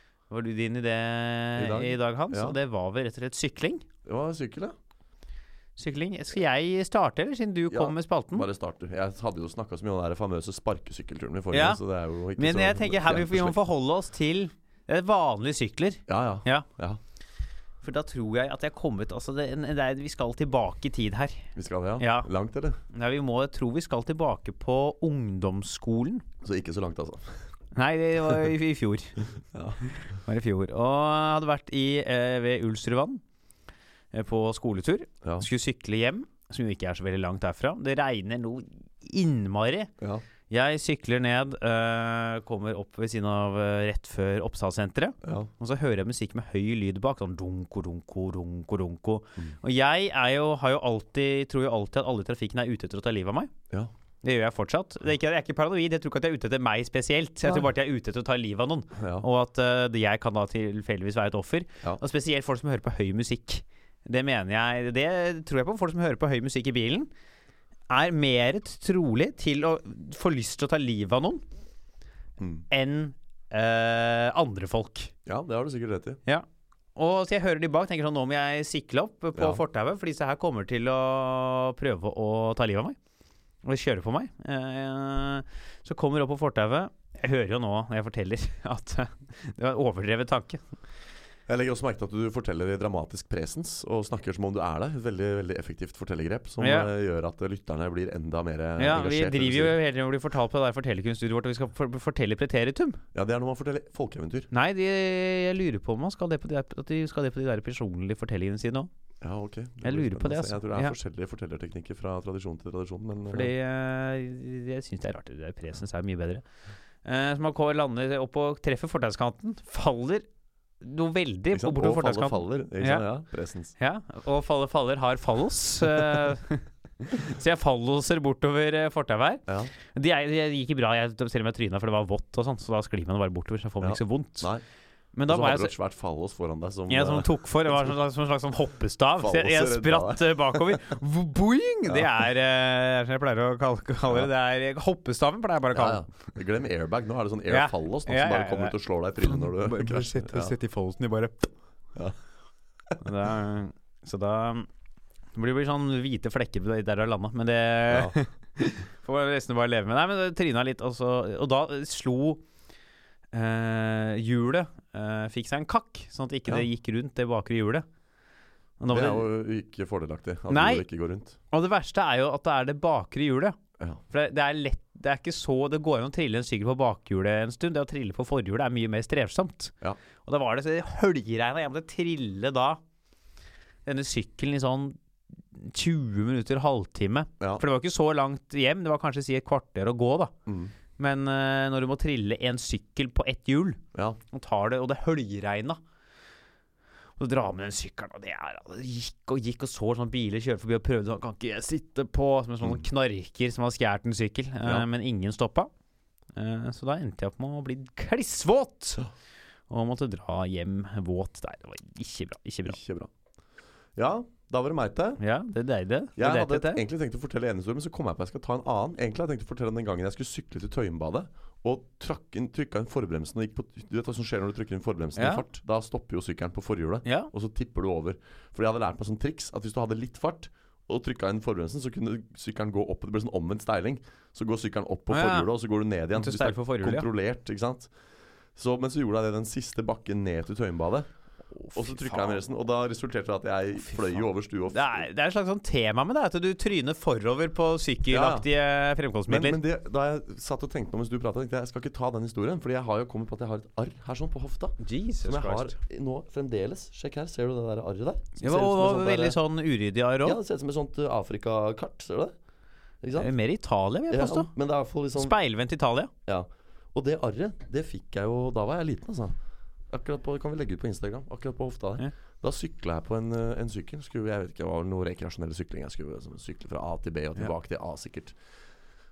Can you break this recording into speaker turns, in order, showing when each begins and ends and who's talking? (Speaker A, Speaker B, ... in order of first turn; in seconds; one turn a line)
Speaker A: 0.3-3.8
Speaker B: 1.6-2.6
Speaker B: 4.0-4.7
Speaker A: 5.8-8.5
Speaker B: 7.7-13.6
Speaker A: 11.5-11.8
Speaker A: 12.3-16.6
Speaker B: 16.1-17.0
Speaker A: 17.8-21.5
Speaker B: 21.5-22.8
Speaker A: 22.0-22.3
Speaker A: 22.9-26.2
Speaker B: 26.4-27.4
Speaker A: 27.7-29.2
Speaker B: 29.5-29.9
Speaker A: 29.9-33.2
Speaker A: 34.1-39.9
Speaker A: 40.5-53.5
Speaker B: 45.2-45.5
Speaker A: 54.2-67.1
Speaker B: 59.0-59.2
Speaker A: 67.9-71.4
Speaker B: 72.4-72.7
Speaker A: 72.7-75.1
Speaker B: 75.2-76.2
Speaker A: 77.0-83.0
Speaker B: 79.3-79.6
Speaker A: 83.6-90.6
Speaker B: 91.5-99.8
Speaker A: 96.6-96.9
Speaker A: 98.8-103.0
Speaker B: 103.1-104.5
Speaker A: 104.5-108.9
Speaker B: 109.2-113.5
Speaker A: 109.8-111.0
Speaker A: 113.3-116.4
Speaker A: 117.0-120.2
Speaker A: 120.8-123.0
Speaker B: 121.5-123.7
Speaker A: 123.8-134.5
Speaker B: 129.5-129.7
Speaker B: 133.8-134.6
Speaker A: 135.1-135.7
Speaker B: 135.3-137.9
Speaker A: 136.9-146.1
Speaker B: 139.2-140.8
Speaker B: 145.7-150.5
Speaker A: 147.5-151.5
Speaker A: 153.0-154.7
Speaker A: 155.3-162.4
Speaker B: 157.9-158.2
Speaker A: 163.3-167.8
Speaker A: 168.8-169.3
Speaker B: 168.9-171.4
Speaker A: 170.5-170.8
Speaker A: 171.5-173.6
Speaker A: 174.1-179.7
Speaker A: 180.2-182.8
Speaker A: 183.8-184.9
Speaker A: 185.5-190.3
Speaker B: 190.4-190.7
Speaker A: 191.0-193.8
Speaker B: 193.9-194.2
Speaker A: 194.3-195.8
Speaker A: 197.2-205.7
Speaker A: 206.3-209.0
Speaker A: 209.7-212.8
Speaker B: 212.7-213.1
Speaker B: 213.9-215.2
Speaker A: 215.2-216.8
Speaker B: 216.2-237.9
Speaker A: 225.2-225.4
Speaker A: 227.0-227.3
Speaker A: 235.1-235.5
Speaker A: 236.1-237.1
Speaker B: 238.5-241.1
Speaker A: 241.6-242.4
Speaker B: 241.7-245.1
Speaker A: 243.8-249.6
Speaker B: 248.1-248.5
Speaker B: 249.3-259.4
Speaker A: 254.8-255.8
Speaker A: 258.4-260.4
Speaker B: 260.2-262.3
Speaker B: 263.0-263.3
Speaker A: 263.1-264.5
Speaker B: 264.1-265.4
Speaker A: 265.1-266.1
Speaker B: 266.3-269.4
Speaker B: 269.9-278.4